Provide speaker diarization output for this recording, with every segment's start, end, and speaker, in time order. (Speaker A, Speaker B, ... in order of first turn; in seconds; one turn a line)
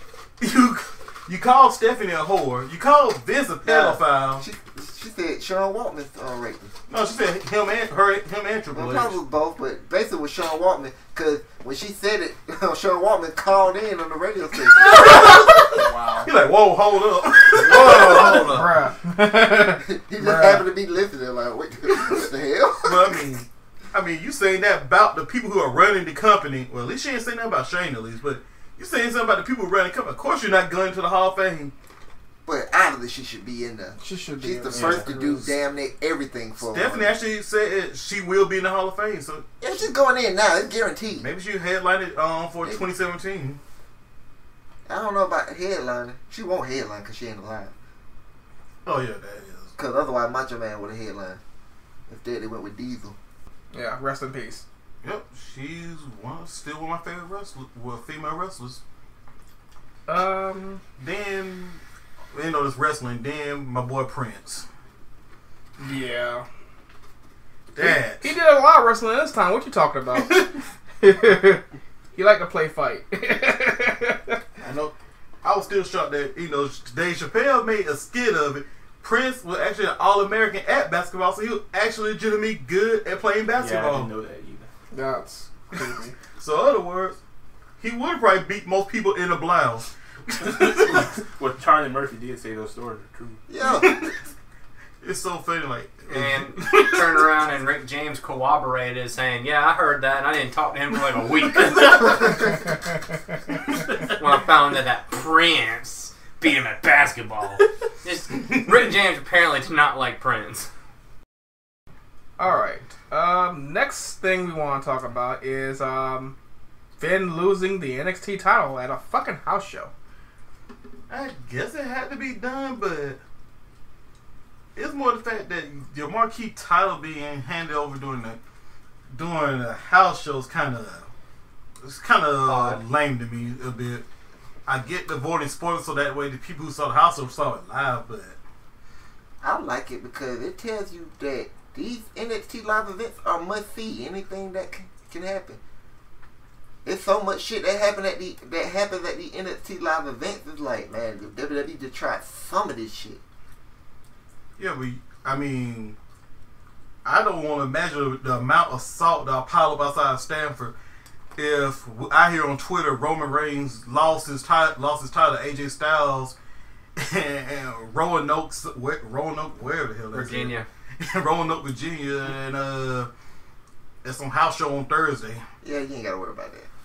Speaker A: 0.4-4.5
Speaker B: 3.6-6.7
Speaker A: 6.9-9.2
Speaker B: 8.7-15.5
Speaker A: 14.7-18.8
Speaker C: 15.6-16.3
Speaker C: 17.6-20.6
Speaker B: 17.6-18.4
Speaker B: 19.8-23.2
Speaker A: 22.8-31.7
Speaker B: 32.5-37.1
Speaker C: 34.0-35.5
Speaker D: 34.7-35.0
Speaker A: 36.6-39.5
Speaker B: 39.6-41.2
Speaker A: 41.2-43.6
Speaker B: 44.9-47.7
Speaker A: 48.8-49.7
Speaker B: 49.8-51.4
Speaker B: 52.1-53.2
Speaker C: 53.7-54.6
Speaker A: 55.0-58.8
Speaker C: 60.1-60.8
Speaker A: 61.0-61.8
Speaker A: 62.3-64.6
Speaker C: 65.8-66.4
Speaker A: 67.7-68.3
Speaker C: 67.8-71.6
Speaker C: 72.1-74.4
Speaker A: 74.6-84.1
Speaker D: 83.6-84.7
Speaker C: 84.9-86.1
Speaker A: 86.4-87.2
Speaker A: 87.8-91.1
Speaker D: 90.5-93.4
Speaker B: 93.5-93.9
Speaker A: 93.7-94.2
Speaker A: 95.0-97.3
Speaker E: 96.1-102.5
Speaker A: 103.7-104.1
Speaker E: 104.2-110.7
Speaker A: 108.5-108.9
Speaker C: 112.4-116.3
Speaker C: 117.0-119.9
Speaker A: 121.1-123.2
Speaker A: 124.8-128.4
Speaker A: 129.1-131.1
Speaker A: 131.8-134.0
Speaker B: 132.4-132.8
Speaker A: 134.7-138.3
Speaker B: 139.4-145.6
Speaker B: 146.8-153.2
Speaker A: 154.6-156.0
Speaker A: 157.0-160.7
Speaker A: 161.3-166.3
Speaker A: 167.0-173.1
Speaker E: 170.1-170.7
Speaker A: 174.0-175.4
Speaker B: 175.6-176.7